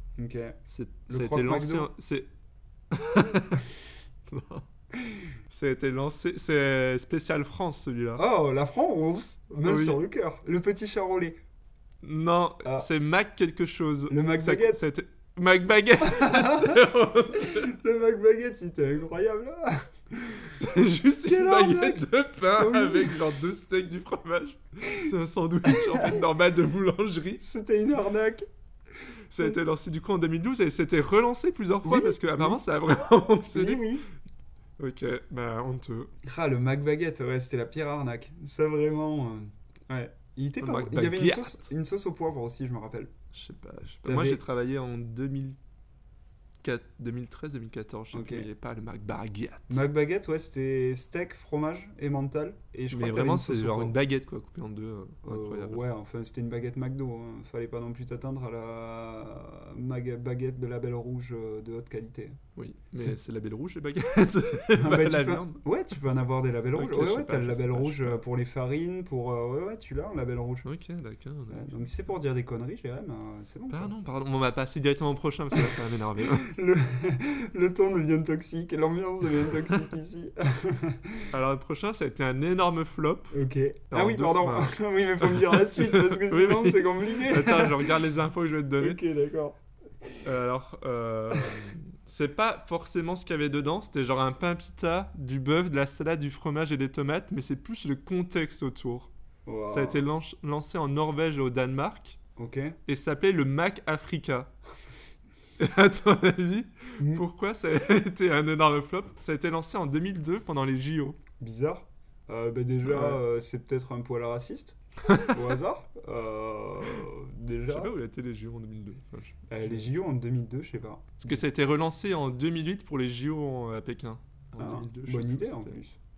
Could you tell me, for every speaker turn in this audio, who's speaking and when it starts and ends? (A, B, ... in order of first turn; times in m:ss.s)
0:00.2-0:00.6 A
0:00.7-0:02.3 B
0:01.1-0:01.9 A
0:02.9-0:03.6 B
0:04.3-0:04.7 B
0:05.5-0:08.2 B
0:08.2-0:11.4 A
0:09.6-0:10.0 B
0:12.0-0:17.7 B
0:14.1-0:14.8 A
0:16.0-0:16.8 A
0:17.3-0:20.5 A
0:20.5-0:27.4 B
0:21.2-0:23.2 A
0:25.7-0:26.2 A
0:27.4-0:28.5 A
0:29.3-0:33.9 B
0:31.8-0:32.6 A
0:33.5-0:34.1 A
0:34.8-0:36.1 B
0:36.2-0:43.1 A
0:40.6-0:41.7 B
0:43.3-0:45.6 B
0:44.0-0:44.4 A
0:46.6-0:49.8 B
0:48.1-0:48.5 A
0:49.7-0:54.0 A
0:52.9-0:55.8 B
0:55.2-1:02.4 A
1:02.6-1:05.6 B
1:04.8-1:10.7 A
1:06.8-1:08.2 B
1:10.6-1:11.9 B
1:11.5-1:13.9 A
1:13.7-1:16.5 B
1:16.4-1:21.3 A
1:21.3-1:23.3 B
1:23.3-1:28.0 A
1:23.9-1:29.0 B
1:28.8-1:30.2 A
1:30.2-1:39.1 B
1:39.5-1:40.0 A
1:39.7-1:42.2 B
1:42.4-1:42.8 A
1:42.9-1:44.5 B
1:45.6-1:51.2 B
1:47.0-1:47.2 A
1:51.4-1:57.9 A
1:52.8-1:53.2 B
1:55.1-1:55.4 B
1:57.7-1:59.8 B
1:59.5-2:01.5 A
2:01.2-2:05.8 B
2:04.6-2:06.0 A